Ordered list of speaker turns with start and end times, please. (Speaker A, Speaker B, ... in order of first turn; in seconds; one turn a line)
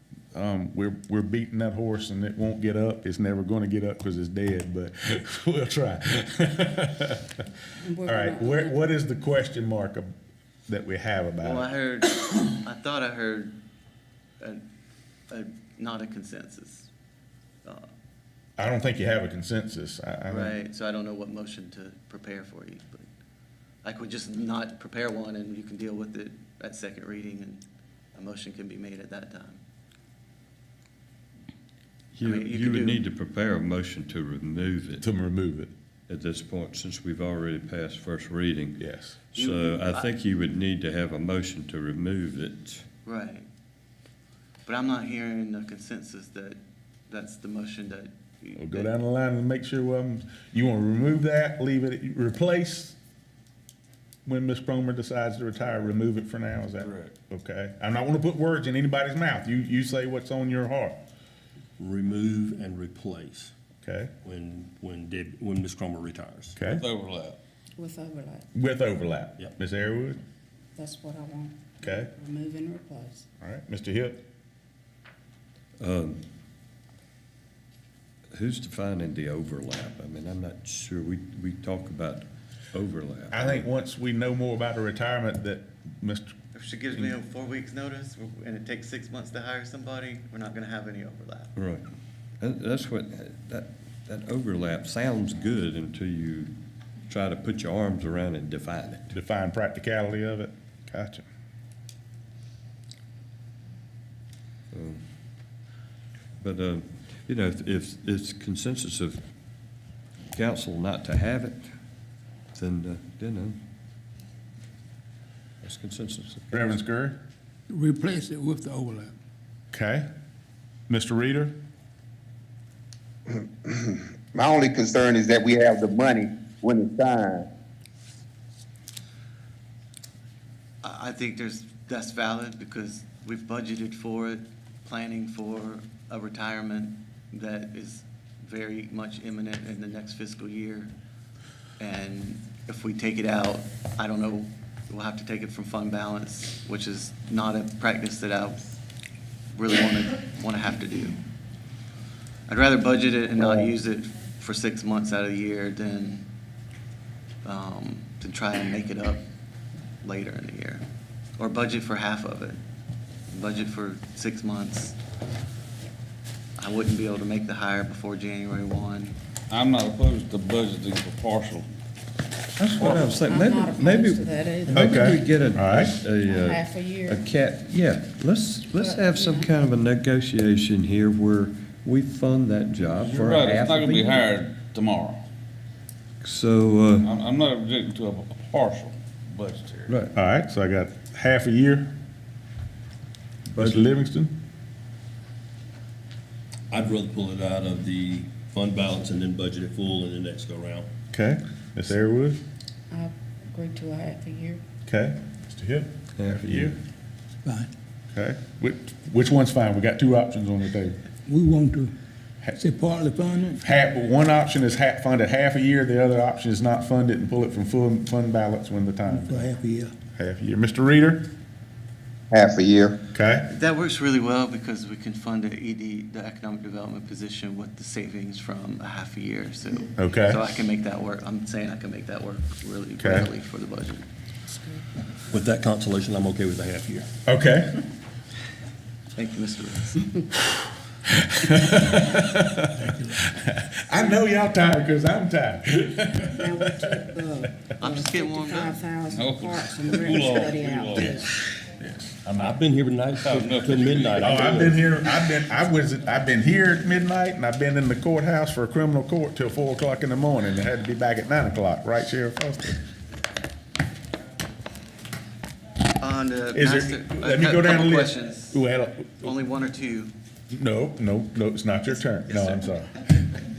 Speaker A: 0.3-7.4
Speaker B: 7.8-8.8
Speaker A: 8.0-10.1
Speaker A: 10.7-11.7
Speaker C: 11.4-13.5
Speaker C: 15.3-16.9
Speaker A: 18.6-20.5
Speaker C: 20.3-23.1
Speaker C: 23.8-27.6
Speaker C: 28.1-29.6
Speaker D: 32.1-35.0
Speaker C: 32.2-33.0
Speaker A: 35.0-35.7
Speaker D: 36.1-42.9
Speaker A: 38.8-39.2
Speaker C: 39.4-40.1
Speaker C: 43.0-43.5
Speaker C: 44.6-48.9
Speaker A: 48.5-53.0
Speaker A: 54.2-61.0
Speaker E: 56.8-57.1
Speaker F: 61.8-63.5
Speaker A: 63.8-64.1
Speaker F: 64.2-66.6
Speaker A: 66.5-66.8
Speaker E: 66.8-67.4
Speaker B: 67.8-68.5
Speaker A: 68.5-70.2
Speaker B: 70.8-73.2
Speaker A: 71.8-72.1
Speaker A: 73.4-74.2
Speaker D: 75.8-76.2
Speaker D: 78.3-83.7
Speaker A: 83.3-86.3
Speaker C: 86.5-91.5
Speaker D: 91.5-91.8
Speaker D: 92.4-96.5
Speaker D: 97.1-99.1
Speaker A: 99.1-101.2
Speaker D: 104.7-105.0
Speaker D: 106.4-109.2
Speaker D: 110.3-111.7
Speaker D: 112.5-113.6
Speaker D: 115.6-116.8
Speaker A: 116.5-117.2
Speaker G: 117.7-119.1
Speaker A: 119.7-120.1
Speaker A: 120.9-121.5
Speaker H: 123.3-127.5
Speaker C: 130.8-140.9
Speaker C: 141.8-148.6
Speaker C: 149.5-151.2
Speaker C: 152.5-156.2
Speaker C: 157.4-159.2
Speaker C: 160.0-160.8
Speaker C: 161.4-162.6
Speaker C: 163.3-165.0
Speaker C: 166.6-169.2
Speaker E: 169.5-171.7
Speaker D: 172.6-184.3
Speaker E: 172.8-173.0
Speaker B: 173.2-175.1
Speaker A: 174.7-175.9
Speaker B: 176.2-177.2
Speaker B: 178.7-179.5
Speaker E: 183.0-185.2
Speaker D: 186.2-187.1
Speaker E: 187.0-189.9
Speaker D: 189.9-190.1
Speaker A: 190.1-191.9
Speaker A: 193.6-194.3
Speaker D: 193.6-193.8
Speaker F: 196.7-200.9
Speaker A: 201.1-202.4
Speaker B: 202.9-204.6
Speaker A: 204.8-206.8
Speaker D: 206.2-206.8
Speaker G: 207.4-207.7
Speaker A: 208.1-211.0
Speaker G: 211.3-211.9
Speaker G: 212.6-213.6
Speaker A: 213.6-219.5
Speaker G: 219.1-219.9
Speaker A: 220.1-221.2
Speaker H: 222.3-223.0
Speaker A: 223.1-223.5
Speaker C: 223.5-234.1
Speaker A: 230.0-230.4
Speaker A: 233.0-233.3
Speaker B: 234.5-234.8
Speaker F: 235.3-237.1
Speaker A: 237.2-237.8
Speaker C: 239.1-240.1
Speaker A: 241.2-247.1
Speaker G: 242.8-243.1
Speaker B: 246.2-251.3
Speaker C: 247.8-248.8
Speaker E: 249.1-251.2
Speaker A: 251.8-252.6
Speaker F: 252.3-254.8
Speaker E: 253.2-254.6
Speaker A: 254.2-262.8
Speaker C: 266.0-268.6
Speaker A: 266.5-269.3
Speaker C: 269.2-270.1
Speaker A: 270.5-273.1
Speaker C: 272.3-272.6